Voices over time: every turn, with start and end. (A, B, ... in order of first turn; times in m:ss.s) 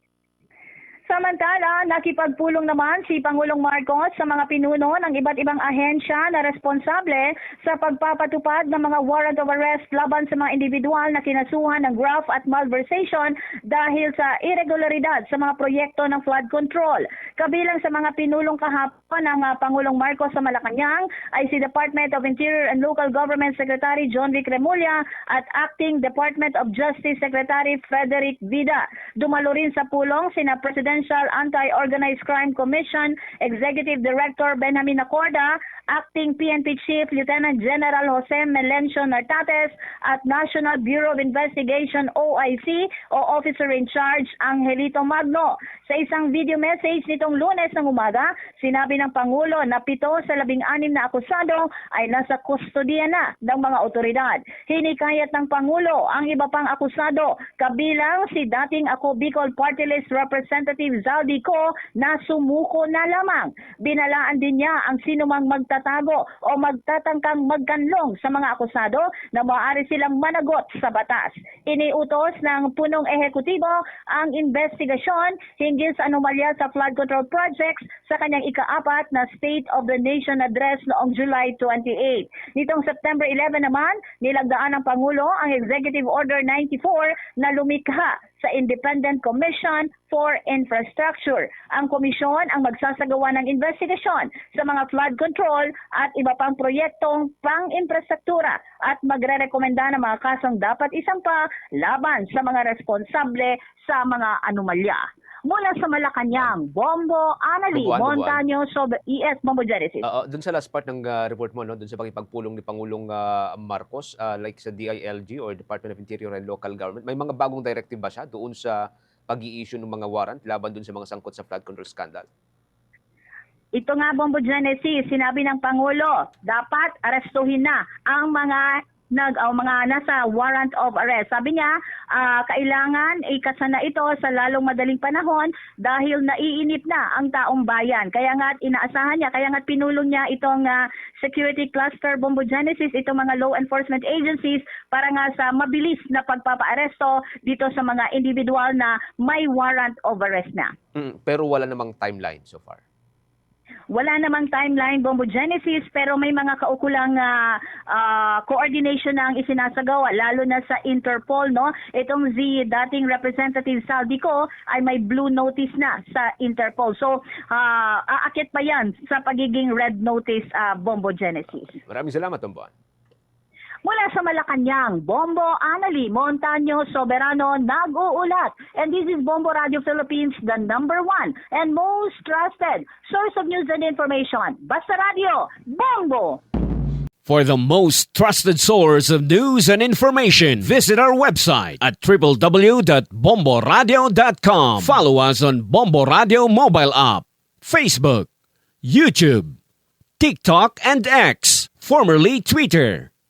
0:01.1-1:50.0 A
1:47.7-1:48.4 B
1:50.0-2:02.3 B
2:03.8-2:30.7 A
2:31.0-2:32.8 B
2:33.9-2:51.7 A
2:51.8-2:52.7 B
2:53.8-3:06.4 A
3:07.2-3:18.3 C
3:18.8-3:19.6 C
3:20.2-3:23.1 C